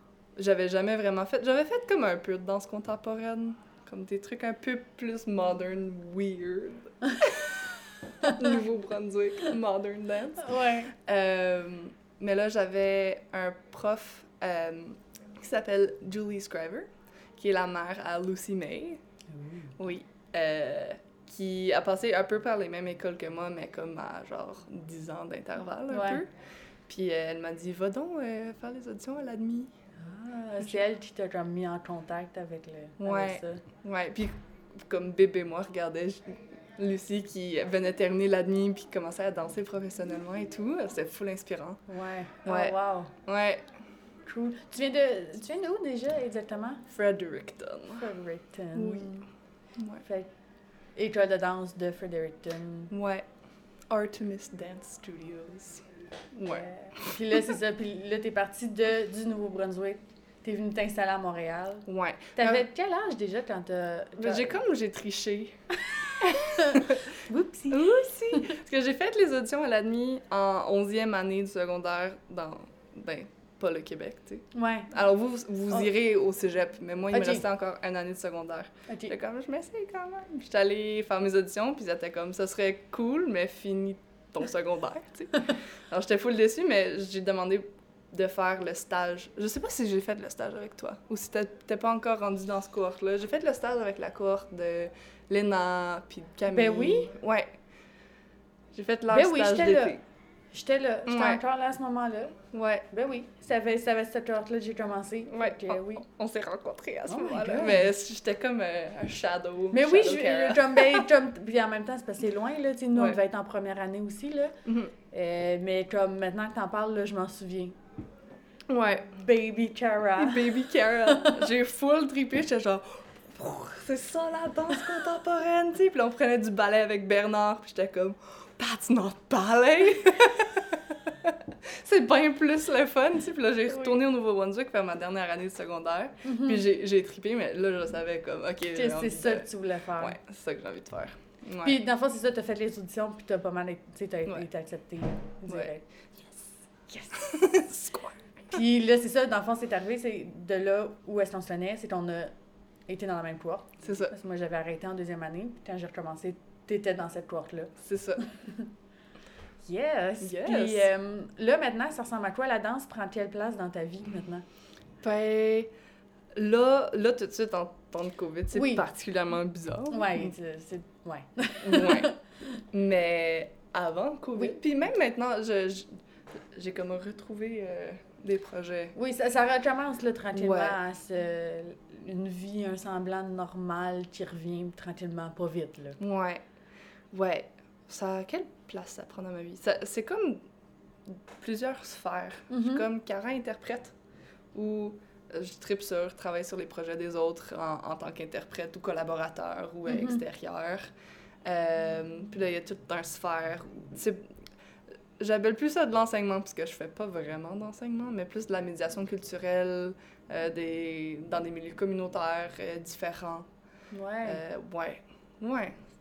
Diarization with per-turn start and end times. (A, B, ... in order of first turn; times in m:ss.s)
0:00.4-0:19.0 A
0:10.4-0:10.9 B
0:19.3-0:19.8 B
0:19.8-0:26.3 A
0:25.9-0:26.2 B
0:26.9-0:29.7 A
0:30.0-0:33.6 B
0:33.0-0:41.8 A
0:41.9-0:43.1 B
0:42.4-0:43.7 A
0:44.2-0:46.8 B
0:46.9-0:48.1 A
0:47.9-0:49.3 B
0:48.8-0:49.2 A
0:49.8-0:50.0 A
0:50.0-0:50.3 B
0:51.0-0:52.9 B
0:52.9-0:53.3 A
0:53.9-0:57.5 A
0:56.5-1:04.6 B
1:01.9-1:02.6 A
1:04.2-1:05.6 A
1:05.9-1:08.5 B
1:06.2-1:07.1 A
1:07.7-1:37.5 A
1:14.5-1:14.9 B
1:17.1-1:17.4 B
1:18.9-1:19.1 B
1:36.5-1:37.1 B
1:38.7-1:40.0 A
1:39.1-1:40.0 B
1:40.5-1:42.4 B
1:41.1-1:41.4 A
1:42.5-1:42.9 A
1:42.9-1:46.0 B
1:45.3-1:51.1 A
1:47.1-1:47.9 B
1:49.7-1:54.6 B
1:52.9-1:53.2 A
1:54.6-1:54.9 A
1:55.1-1:57.8 B
1:58.7-1:59.2 A
1:59.2-2:00.6 B
2:00.2-2:21.9 A
2:01.1-2:01.4 B
2:13.7-2:14.0 B
2:16.2-2:16.7 B
2:18.7-2:20.2 B
2:21.6-2:25.9 B
2:26.9-2:27.2 B
2:27.1-2:28.3 A
2:28.5-2:32.3 B
2:32.9-2:37.7 B
2:33.8-2:34.1 A
2:37.8-2:38.3 A
2:38.3-2:38.7 B
2:39.6-2:44.4 B
2:40.2-2:40.9 A
2:45.0-2:45.7 A
2:46.4-2:50.3 A
2:48.5-2:48.9 B
2:49.9-2:52.2 B
2:51.6-2:52.2 A
2:52.7-2:56.0 A
2:56.5-2:59.0 A
2:59.0-3:06.0 B
3:00.3-3:00.8 A
3:06.0-3:06.4 A
3:07.1-3:10.4 A
3:11.1-3:14.0 A
3:12.5-3:12.9 B
3:14.5-3:20.9 A
3:19.9-3:20.2 B
3:21.4-3:24.3 A
3:25.2-3:33.5 A
3:33.9-3:34.4 B
3:34.2-3:35.8 A